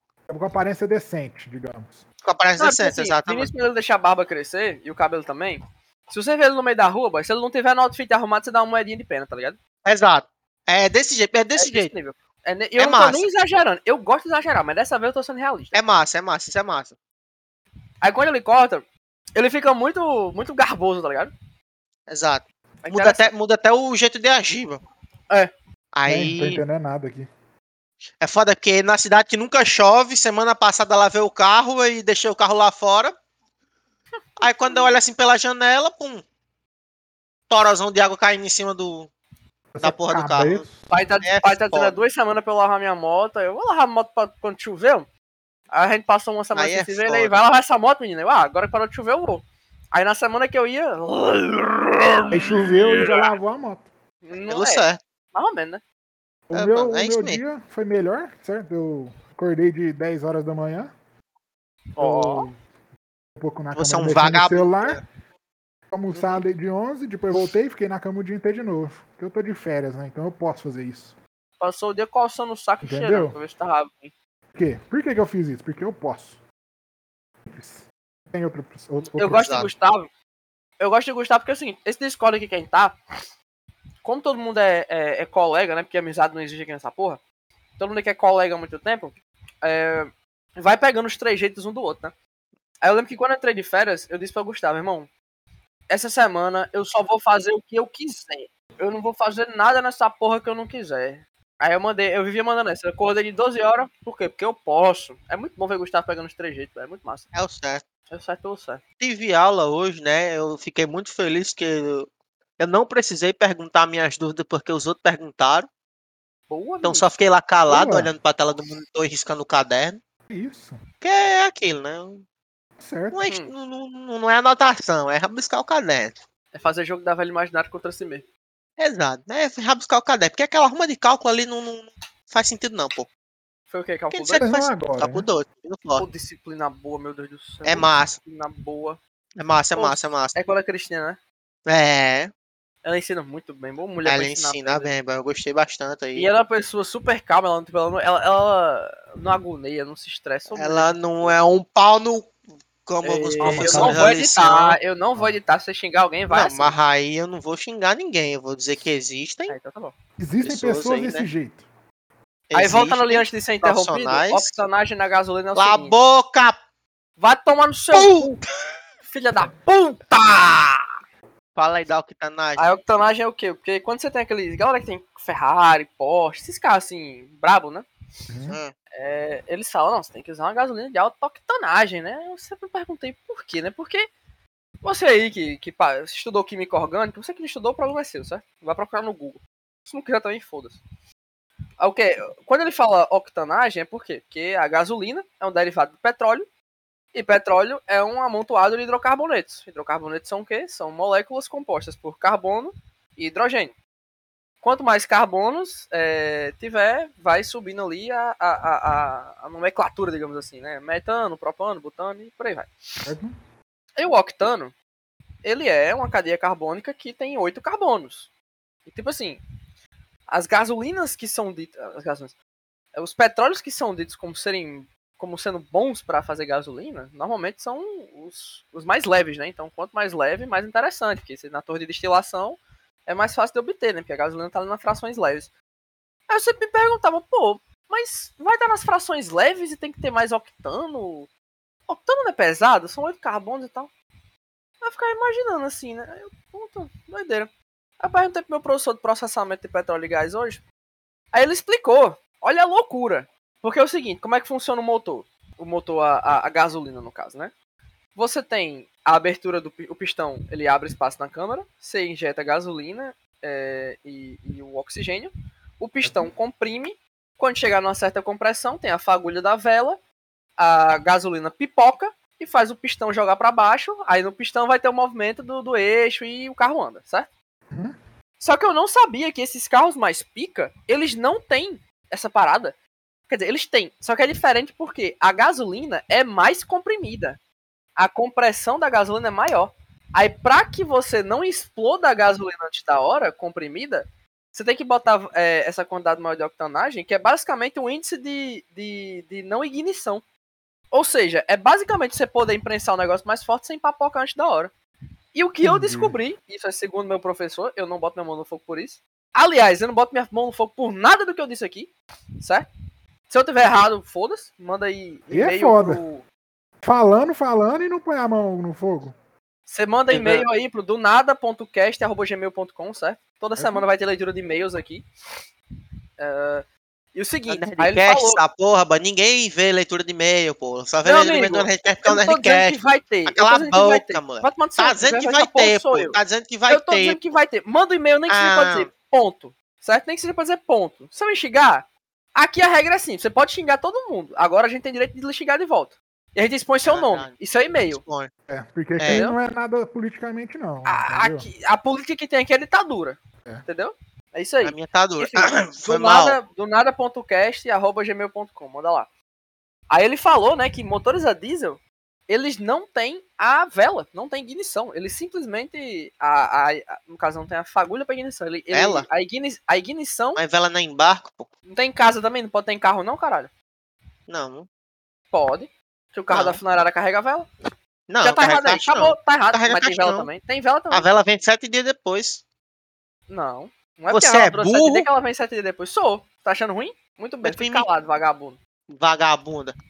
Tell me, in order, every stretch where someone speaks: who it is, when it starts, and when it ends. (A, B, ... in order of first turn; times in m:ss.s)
0:00.3-0:02.0 A
0:02.2-0:03.5 B
0:02.6-0:09.6 C
0:09.8-0:11.9 B
0:11.6-0:15.8 C
0:12.8-0:13.3 B
0:15.7-0:17.0 B
0:18.0-0:18.8 C
0:19.4-0:21.3 C
0:22.1-0:24.8 B
0:22.8-0:23.3 C
0:25.9-0:26.6 B
0:26.1-0:27.3 A
0:28.2-0:33.1 B
0:34.2-0:34.9 C
0:34.4-0:36.2 B
0:37.5-0:39.1 B
0:39.7-0:40.9 A
0:39.8-0:40.7 B
0:40.9-0:45.1 C
0:41.2-0:42.0 B
0:45.7-0:49.4 C
0:46.5-0:47.3 B
0:49.9-0:52.3 C
0:52.3-0:53.9 A
0:54.2-0:55.8 C
0:54.5-0:55.0 B
0:56.5-1:00.9 A
0:56.5-0:57.4 B
1:02.0-1:02.5 C
1:02.0-1:02.6 A
1:03.4-1:05.0 A
1:03.7-1:05.0 B
1:05.9-1:11.2 A
1:06.1-1:06.4 C
1:11.6-1:14.1 C
1:12.8-1:13.4 A
1:14.5-1:16.4 A
1:17.5-1:19.6 A
1:19.2-1:20.1 C
1:19.4-1:19.7 B
1:20.8-1:23.0 C
1:24.0-1:27.2 C
1:27.8-1:32.1 C
1:32.8-1:35.1 C
1:35.9-1:47.3 C
1:47.3-1:47.8 B
1:48.1-1:48.8 C
1:49.0-1:52.1 B
1:52.6-1:55.7 B
1:56.5-1:57.0 C
1:56.8-2:00.0 B
1:57.7-1:58.1 A
2:00.3-2:00.8 A
2:01.0-2:02.2 B
2:02.8-2:03.2 A
2:03.1-2:06.2 B
2:06.5-2:08.2 C
2:08.8-2:13.1 B
2:13.7-2:14.4 C
2:14.1-2:16.1 B
2:14.4-2:15.3 A
2:16.0-2:19.0 C
2:17.6-2:18.2 B
2:19.4-2:20.4 B
2:19.8-2:21.2 C
2:21.7-2:22.3 B
2:22.8-2:24.9 C
2:24.0-2:26.3 B
2:26.2-2:31.4 C
2:30.5-2:32.3 B
2:32.9-2:34.8 B
2:33.0-2:36.8 C
2:33.4-2:34.1 A
2:36.3-2:39.6 B
2:39.5-2:39.9 C
2:40.2-2:41.7 A
2:40.4-2:41.3 B
2:42.5-2:44.5 B
2:42.6-2:46.0 C
2:45.6-2:46.6 B
2:47.2-2:48.4 C
2:47.9-2:48.4 B
2:49.0-2:50.9 C
2:51.6-2:52.7 B
2:52.6-2:57.9 C
2:58.3-2:58.6 A
2:58.5-2:58.7 B
2:59.0-3:04.1 C
3:04.8-3:10.8 C
3:11.8-3:16.5 C
3:17.1-3:23.8 C
3:24.6-3:32.7 C
3:33.1-3:33.3 A
3:34.0-3:34.8 C
3:35.4-3:38.3 C
3:38.9-3:39.4 C
3:40.3-3:42.4 C
3:42.9-3:55.5 C
3:56.3-4:01.3 C
4:01.9-4:03.9 C
4:04.8-4:10.6 C
4:11.3-4:17.5 C
4:18.2-4:30.0 C
4:26.0-4:26.3 A
4:30.6-4:37.3 C
4:37.7-4:38.0 A
4:38.4-4:42.8 C
4:43.3-4:47.4 C
4:48.0-5:00.2 C
5:00.9-5:04.7 C
5:05.3-5:12.7 C
5:05.6-5:06.2 A
5:13.3-5:16.3 C
5:15.3-5:16.0 A
5:16.8-5:19.1 A
5:19.7-5:25.0 C
5:20.1-5:20.5 B
5:23.6-5:23.8 A
5:26.2-5:28.4 C
5:27.5-5:37.2 B
5:31.0-5:48.0 C
5:38.3-5:38.9 B
5:46.8-5:47.3 B
5:47.9-5:48.3 B
5:48.5-5:51.5 A
5:49.0-5:49.3 B
5:49.1-5:49.4 C
5:50.8-5:59.1 C
5:54.6-5:56.4 B
5:59.9-6:10.4 C
6:08.7-6:09.1 B
6:10.4-6:11.5 B
6:11.7-6:13.5 C
6:14.3-6:14.7 B
6:15.3-6:17.5 C
6:16.3-6:16.6 B
6:18.1-6:20.3 B
6:18.2-6:21.1 C
6:20.9-6:22.4 B
6:23.3-6:28.6 C
6:24.1-6:25.1 B
6:27.4-6:27.9 B
6:28.9-6:29.7 B